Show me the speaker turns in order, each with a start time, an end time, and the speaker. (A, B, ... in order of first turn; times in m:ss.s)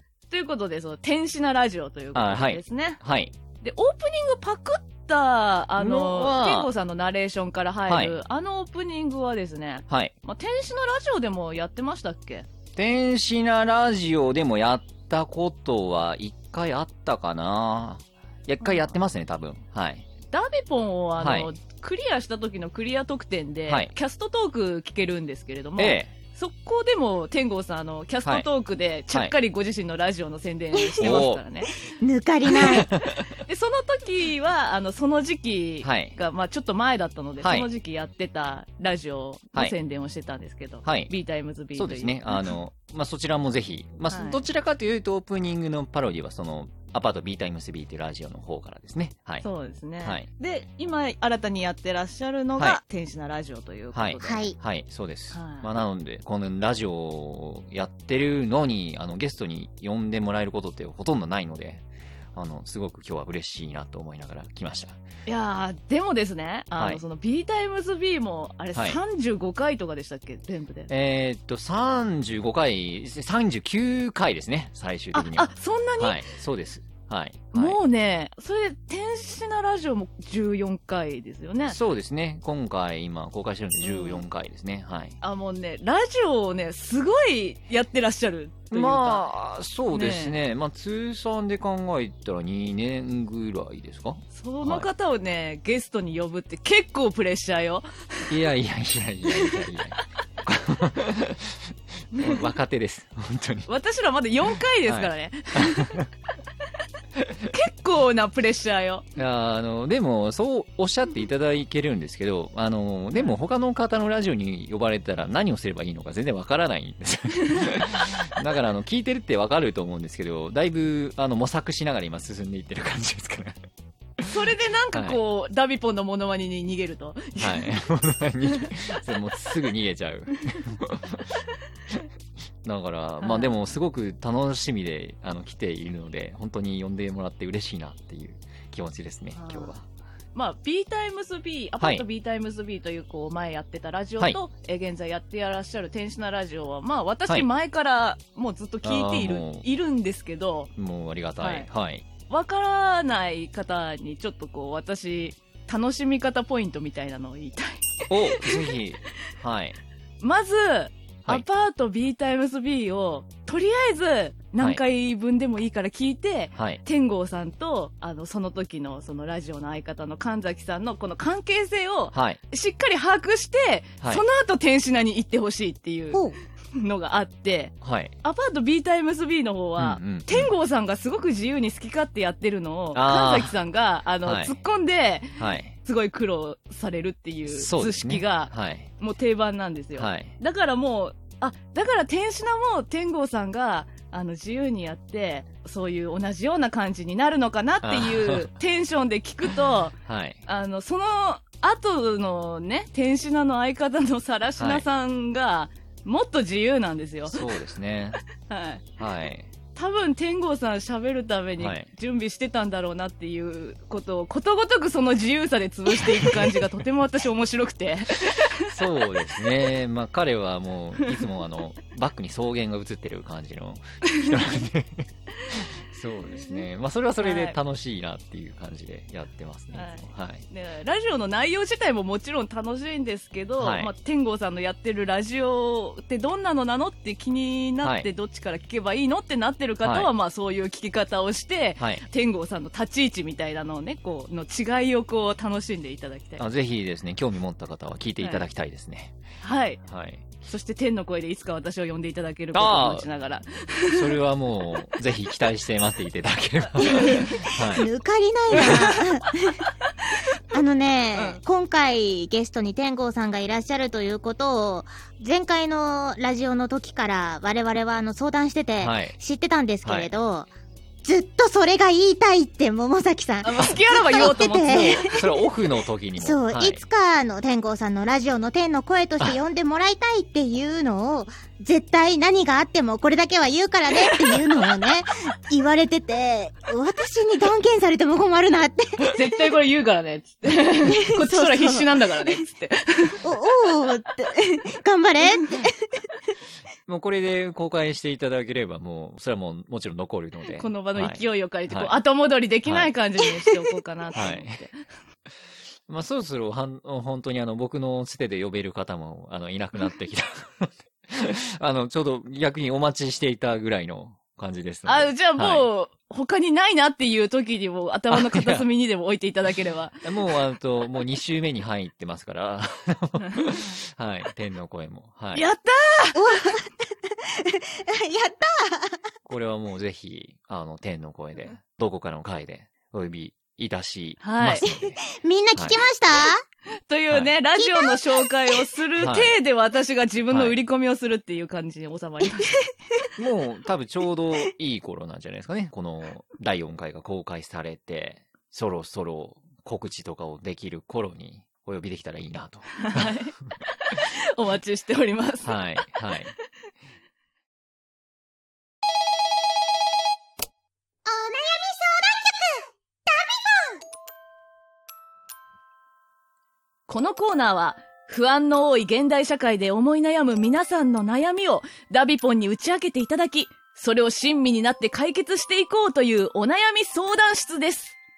0:00.3-0:03.0 A
0:02.1-0:03.3 B
0:03.6-0:12.4 A
0:05.8-0:06.7 B
0:07.8-0:08.2 B
0:09.9-0:10.1 B
0:12.7-0:20.0 B
0:20.3-0:31.7 A
0:21.2-0:21.5 B
0:25.8-0:26.1 B
0:30.8-0:31.2 C
0:31.0-0:31.4 B
0:32.0-0:32.9 C
0:32.6-0:33.3 B
0:33.4-0:42.4 A
0:35.8-0:36.2 B
0:37.4-0:37.7 B
0:40.8-0:41.1 B
0:41.8-0:49.4 B
0:44.1-0:44.4 A
0:49.4-0:54.5 A
0:53.9-1:05.0 B
0:54.2-0:54.6 C
0:55.3-0:55.7 A
1:05.3-1:10.9 A
1:08.7-1:09.0 B
1:10.9-1:17.8 B
1:15.1-1:16.2 A
1:17.5-1:21.8 A
1:21.7-1:25.2 B
1:23.8-1:24.2 A
1:25.2-1:29.2 A
1:28.7-1:34.9 B
1:29.9-1:30.3 A
1:34.3-1:38.3 A
1:38.3-1:43.7 B
1:39.3-1:39.6 A
1:42.1-1:42.4 A
1:43.7-1:46.1 A
1:44.8-1:46.0 B
1:47.2-1:47.5 B
1:47.4-1:49.0 A
1:49.2-2:03.6 B
1:57.4-1:57.8 A
2:04.2-2:07.7 A
2:07.4-2:11.4 B
2:12.6-2:19.8 B
2:13.2-2:13.5 A
2:20.3-2:30.7 A
2:21.8-2:22.0 B
2:28.8-2:29.6 B
2:30.8-2:32.0 B
2:31.4-2:31.7 A
2:32.3-2:38.6 A
2:38.1-2:39.8 B
2:40.2-2:56.2 A
2:46.5-2:46.8 B
2:52.1-2:52.4 B
2:56.7-3:19.9 A
2:57.8-2:58.1 B
2:59.8-3:00.5 B
3:02.9-3:03.5 B
3:04.2-3:04.6 B
3:05.4-3:05.7 B
3:07.5-3:08.9 B
3:10.0-3:10.3 B
3:17.8-3:18.5 B
3:20.0-3:20.4 B
3:20.4-3:27.4 A
3:24.6-3:24.8 B
3:27.3-3:28.2 B
3:28.5-3:28.8 A
3:29.0-3:29.5 B
3:29.7-3:38.8 A
3:31.6-3:31.9 B
3:36.0-3:36.6 B
3:38.7-3:50.4 B
3:41.0-3:41.3 A
3:44.1-3:44.4 A
3:45.4-3:45.7 A
3:46.3-3:46.6 A
3:47.2-3:47.6 A
3:49.7-4:06.4 A
3:53.6-3:53.9 B
3:57.8-3:58.1 B
3:59.8-4:00.1 B
4:06.4-4:09.2 B
4:08.2-4:08.4 A
4:09.4-4:09.8 A
4:09.8-4:10.2 B
4:10.4-4:14.1 A
4:12.5-4:13.1 B
4:13.9-4:17.9 B
4:16.8-4:19.7 C
4:17.0-4:17.3 A
4:18.5-4:18.9 B
4:20.5-4:30.5 C
4:21.1-4:21.4 A
4:28.8-4:29.1 B
4:29.8-4:30.1 B
4:31.0-4:35.2 C
4:33.4-4:35.2 A
4:34.7-4:36.8 B
4:36.2-4:49.0 C
4:49.1-4:53.2 A
4:50.9-4:52.4 C
4:53.2-4:55.8 C
4:55.4-4:55.6 A
4:56.9-5:02.0 B
5:00.6-5:04.8 A
5:04.1-5:04.6 B
5:05.9-5:15.7 B
5:14.8-5:20.0 A
5:18.1-5:18.6 B
5:20.0-5:25.4 B
5:25.3-5:26.5 A
5:26.1-5:29.0 C
5:29.2-5:35.0 B
5:34.2-5:34.6 A
5:34.8-5:36.4 C
5:35.5-5:35.8 B
5:36.9-5:42.6 A
5:37.6-5:38.6 C
5:39.0-5:39.3 B
5:40.3-5:40.6 B
5:43.2-5:53.1 B
5:52.8-5:55.6 A
5:55.4-5:56.3 B
6:01.0-6:03.8 C
6:06.9-6:18.0 A